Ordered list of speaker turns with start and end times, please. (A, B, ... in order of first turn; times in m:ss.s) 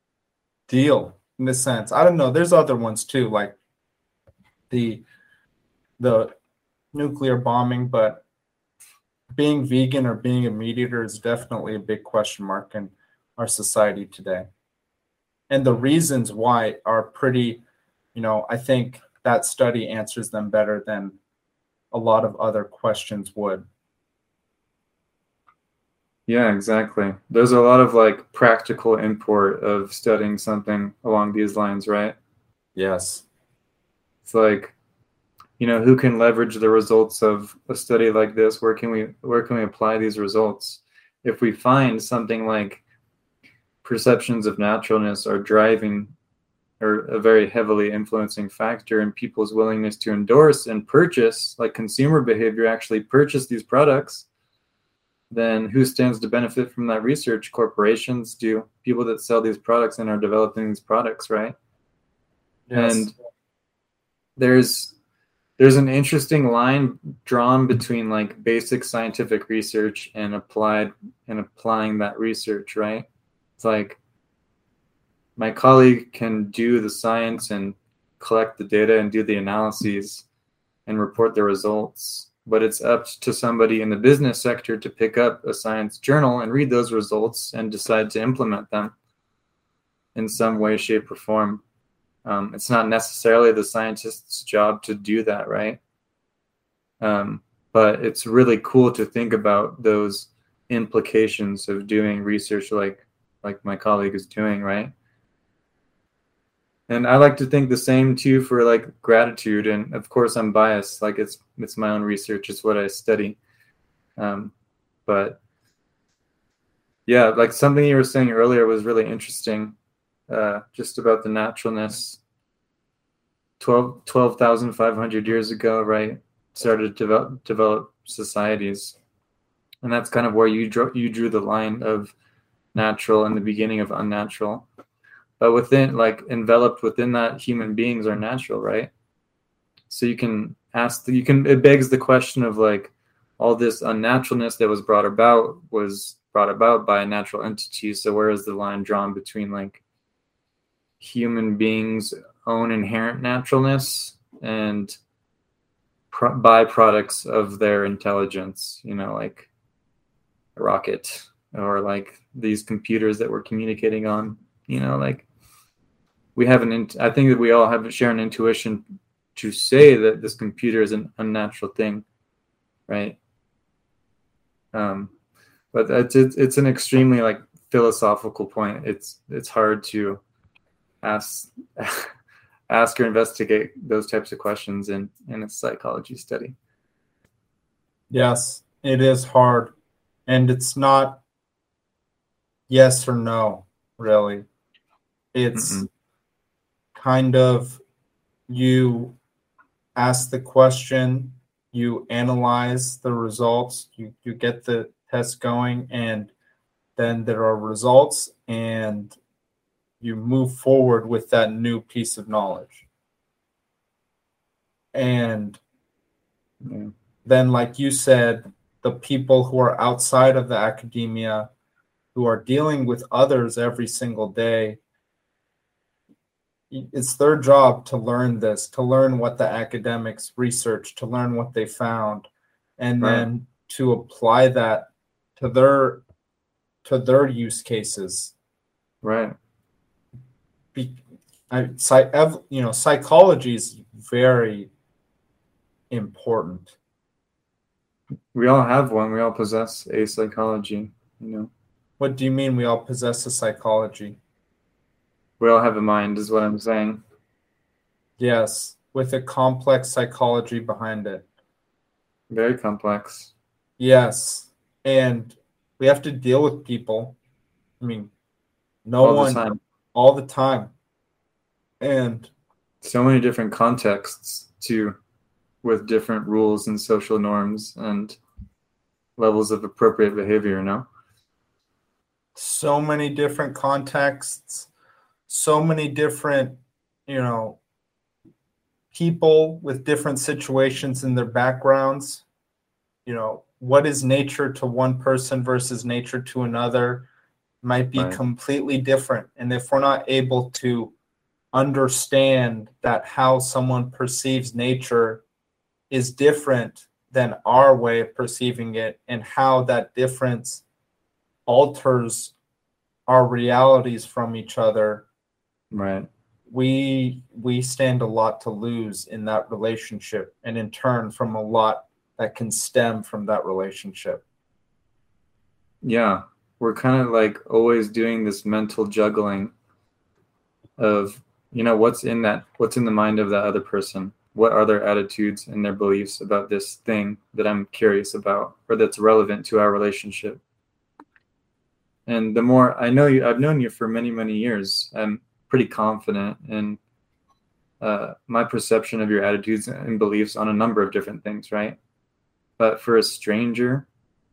0:00.7-0:03.6 A
0:04.7-0:05.0 A
0:06.0-0:06.3 A
0:06.9-0:08.2 A
0:09.3-0:14.5 A
0:15.5-0:17.6 A
0:18.2-0:21.2 A
0:21.9-0:23.6 A
0:26.3-0:32.2 B
0:32.8-0:33.2 A
0:34.2-0:34.7 B
0:35.6-0:42.8 B
0:43.8-0:46.1 B
0:46.8-0:54.3 B
0:55.3-1:01.6 B
1:02.7-1:03.1 A
1:02.8-1:03.1 B
1:04.4-1:05.0 B
1:05.6-1:13.1 B
1:13.6-1:14.0 B
1:15.4-1:20.3 B
1:20.9-1:28.9 B
1:30.2-1:31.6 B
1:32.2-1:35.8 B
1:37.0-1:44.9 B
1:46.9-1:53.4 B
1:54.2-1:54.5 B
1:55.1-1:55.4 B
1:57.1-1:59.8 B
2:00.3-2:02.2 B
2:03.6-2:09.0 B
2:09.8-2:12.1 B
2:12.7-2:14.7 B
2:15.4-2:18.9 B
2:19.9-2:29.8 B
2:31.0-2:35.0 B
2:36.1-2:39.5 B
2:40.6-2:45.3 B
2:46.4-2:48.8 B
2:49.4-2:52.0 B
2:52.9-2:53.2 B
2:54.7-2:55.1 B
2:55.7-3:00.2 B
3:01.0-3:02.1 B
3:02.7-3:06.6 B
3:08.1-3:09.7 A
3:10.3-3:11.2 A
3:12.7-3:14.5 A
3:15.3-3:15.9 A
3:15.6-3:15.9 B
3:17.0-3:17.8 A
3:18.5-3:19.2 A
3:20.0-3:26.3 A
3:27.0-3:29.2 A
3:30.0-3:32.8 A
3:34.9-3:35.6 A
3:36.6-3:36.9 B
3:37.2-3:41.5 A
3:42.1-3:44.8 A
3:46.7-3:56.0 A
3:53.0-3:53.3 B
3:56.8-3:58.3 A
3:59.0-3:59.4 B
4:01.5-4:04.7 A
4:05.9-4:06.7 A
4:08.3-4:11.5 B
4:12.0-4:14.2 A
4:15.4-4:17.0 B
4:18.2-4:21.3 A
4:22.3-4:23.3 B
4:23.8-4:27.2 A
4:27.8-4:28.1 A
4:28.8-4:30.7 A
4:29.0-4:29.6 B
4:31.8-4:32.3 A
4:32.8-4:35.0 B
4:35.6-4:38.2 B
4:39.2-4:40.9 B
4:42.4-4:44.7 A
4:45.3-4:47.6 A
4:48.9-4:52.2 A
4:53.1-4:57.1 A
4:57.6-5:00.9 A
5:01.5-5:05.2 A
5:05.9-5:10.6 A
5:11.5-5:12.3 A
5:13.1-5:15.1 A
5:15.7-5:16.1 B
5:16.5-5:24.2 A
5:25.8-5:29.5 B
5:30.8-5:40.4 B
5:42.1-5:46.8 B
5:47.8-5:51.8 B
5:52.6-5:53.9 B